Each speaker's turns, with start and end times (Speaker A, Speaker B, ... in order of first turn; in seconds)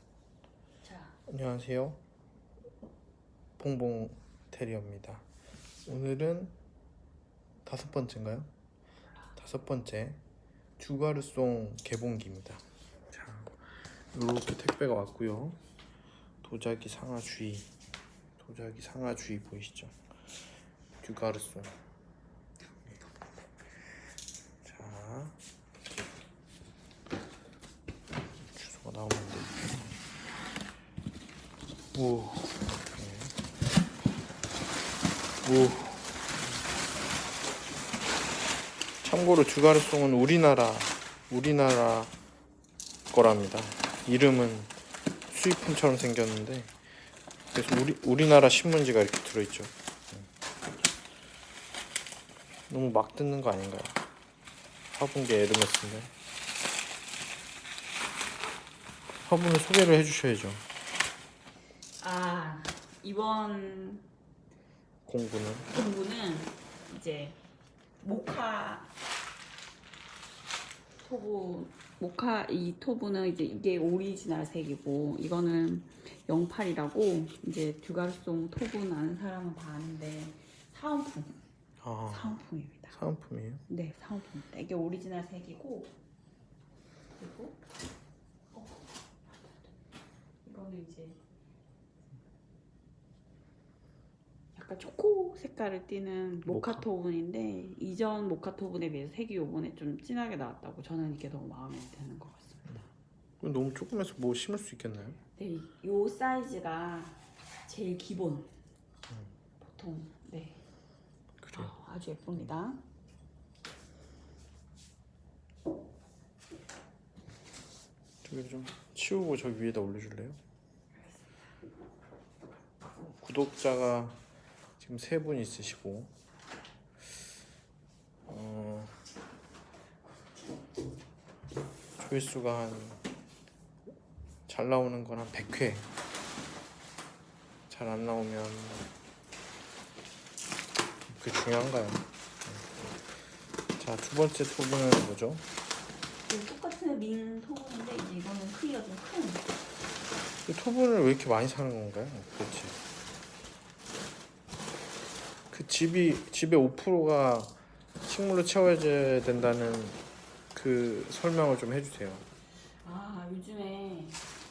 Speaker A: 0.8-1.2, 62.0-64.0, 65.7-67.4, 68.0-68.9, 71.0-81.4, 82.1-83.0, 83.7-85.9, 87.2-87.6, 88.5-89.6, 90.4-91.2, 94.5-102.7, 105.4-108.5, 109.6-110.6, 111.5-112.8, 146.3-149.6, 162.8-164.2
Speaker B: 1.2-2.0, 3.6-5.2, 5.8-6.5, 7.6-8.5, 9.3-10.2, 10.8-15.6, 16.4-17.7, 18.4-20.0, 21.0-21.8, 24.6-25.4, 28.5-30.0, 31.9-33.3, 35.4-36.1, 39.0-42.1, 43.1-44.8, 45.3-46.8, 47.5-50.3, 52.7-54.0, 54.9-56.1, 59.2-60.6, 65.0-65.7, 81.8-83.6, 96.5-96.8, 103.4-105.2, 111.4-111.7, 118.2-120.4, 123.0-124.2, 124.8-126.1, 128.3-129.0, 132.0-133.0, 134.5-135.9, 137.7-138.9, 141.1-143.2, 143.8-145.4, 150.4-152.8, 155.5-160.0, 160.5-162.3